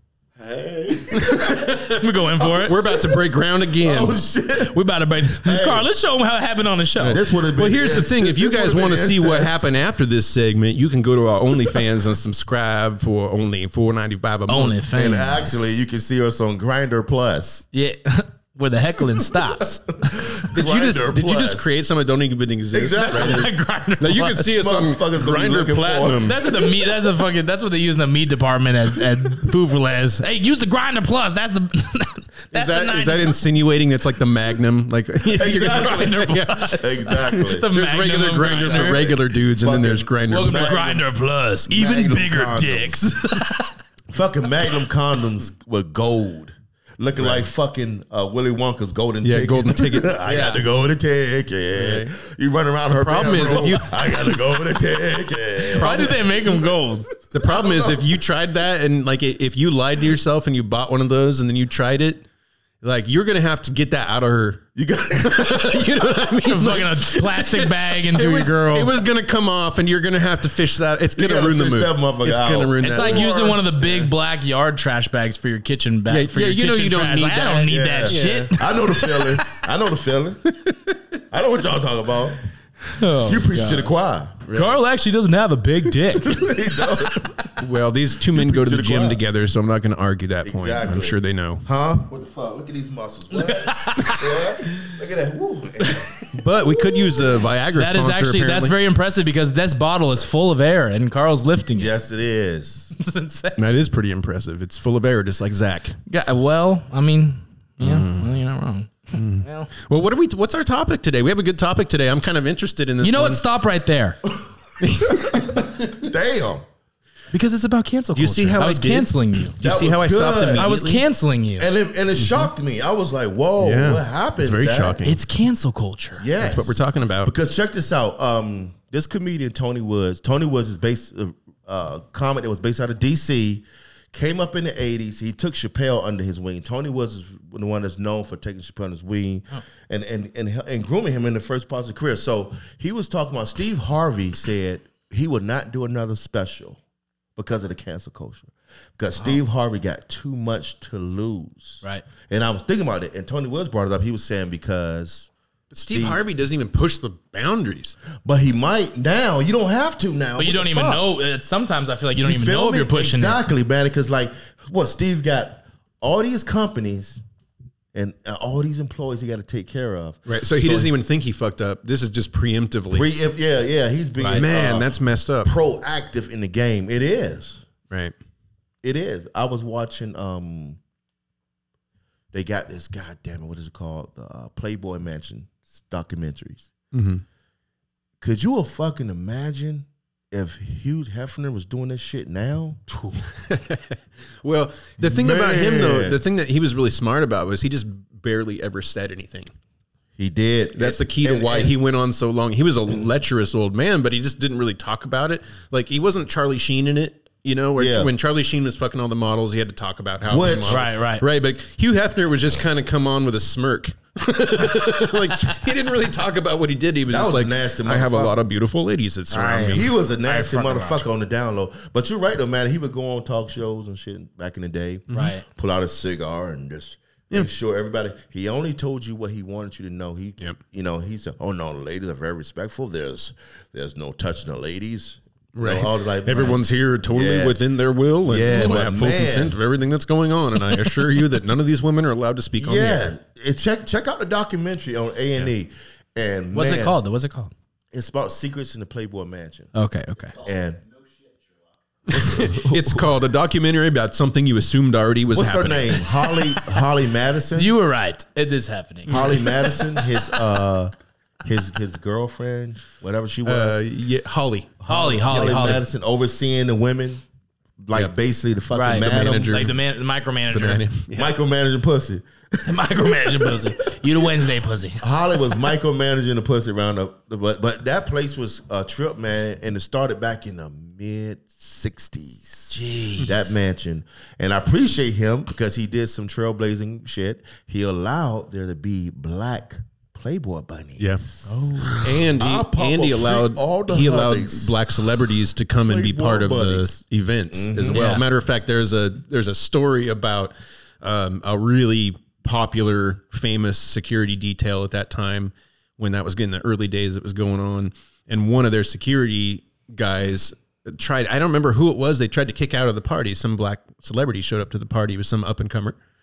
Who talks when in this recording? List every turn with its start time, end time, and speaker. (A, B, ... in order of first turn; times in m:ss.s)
0:00.4-0:03.2 A
0:01.1-0:02.0 B
0:01.8-0:02.7 C
0:02.6-0:04.2 B
0:03.8-0:04.7 A
0:04.6-0:07.2 C
0:05.4-0:05.9 A
0:07.0-0:14.8 B
0:07.0-0:09.7 A
0:14.5-0:15.5 C
0:14.9-0:17.6 A
0:17.7-0:20.4 C
0:20.0-0:21.7 A
0:20.5-0:26.7 B
0:22.7-0:23.5 A
0:23.1-0:24.5 C
0:24.4-0:26.4 A
0:26.2-0:33.4 C
0:32.5-0:40.8 B
0:35.3-0:39.0 C
0:35.4-0:37.7 A
0:38.5-0:41.0 A
0:40.3-0:43.7 C
0:41.7-0:43.0 A
0:44.1-0:56.1 A
0:47.2-0:47.4 B
0:49.2-0:50.6 B
0:51.7-0:52.2 B
0:52.9-0:54.0 B
0:55.6-0:56.3 B
0:55.8-0:57.1 C
0:57.3-1:02.2 B
0:57.4-0:58.0 A
1:02.8-1:13.3 B
1:04.8-1:05.7 A
1:05.8-1:08.9 C
1:11.2-1:14.0 A
1:12.8-1:19.6 C
1:16.1-1:18.5 B
1:17.7-1:20.5 A
1:20.5-1:21.0 B
1:21.3-1:22.4 A
1:22.9-1:23.9 C
1:23.2-1:24.4 A
1:24.4-1:24.8 B
1:24.5-1:27.2 C
1:26.2-1:27.4 A
1:27.6-1:31.6 B
1:28.3-1:29.2 A
1:30.4-1:37.4 A
1:33.3-1:34.9 C
1:36.3-1:38.7 B
1:37.7-1:41.9 C
1:41.8-1:42.9 A
1:42.9-1:43.6 C
1:43.6-1:46.0 B
1:46.1-1:49.7 C
1:47.8-1:48.3 B
1:49.1-1:53.4 B
1:53.0-1:54.2 C
1:54.8-1:55.2 B
1:55.1-1:56.6 A
1:57.3-1:59.6 C
1:58.2-2:01.0 B
1:59.6-2:00.7 A
2:00.5-2:01.7 C
2:01.6-2:05.1 A
2:02.2-2:02.5 B
2:03.6-2:05.2 B
2:05.0-2:06.2 C
2:06.2-2:26.8 A
2:06.4-2:07.3 B
2:27.4-2:35.3 A
2:35.7-2:38.0 B
2:35.9-2:36.2 A
2:38.2-2:41.0 A
2:40.4-2:43.4 C
2:42.2-2:47.2 A
2:47.9-2:50.9 A
2:50.3-2:53.1 B
2:52.9-2:57.6 A
2:54.2-2:54.4 C
2:54.4-2:55.5 B
2:58.8-3:00.8 A
3:02.3-3:06.7 A
3:06.9-3:07.2 B
3:08.2-3:12.8 A
3:13.2-3:19.5 B
3:15.0-3:16.2 A
3:20.2-3:21.7 A
3:20.8-3:39.9 B
3:27.8-3:28.1 A
3:30.3-3:30.8 A
3:30.7-3:31.2 C
3:37.1-3:38.4 A
3:39.3-3:41.1 C
3:39.5-3:57.6 A
3:45.1-3:45.4 C
3:55.5-4:03.1 B
3:58.2-3:59.6 A
4:02.6-4:07.0 A
4:06.5-4:07.5 C
4:07.9-4:09.7 A
4:09.7-4:10.4 C
4:10.4-4:10.8 A
4:12.1-4:13.0 A
4:12.1-4:16.0 B
4:15.3-4:17.7 A
4:17.5-4:19.9 C
4:19.1-4:20.9 A
4:19.1-4:19.4 B
4:21.4-4:23.8 A
4:23.4-4:24.8 B
4:24.8-4:27.2 A
4:24.9-4:25.8 C
4:27.8-4:29.7 A
4:28.7-4:30.8 C
4:29.0-4:29.8 B
4:30.5-4:31.3 B
4:31.1-4:34.4 A
4:32.6-4:35.0 C
4:35.0-4:54.8 A
4:42.7-4:43.4 C
4:51.0-4:51.2 B
4:51.4-4:52.0 C
4:51.9-5:16.0 B
4:55.8-4:57.0 A
4:57.5-4:58.0 A
4:57.9-4:58.2 C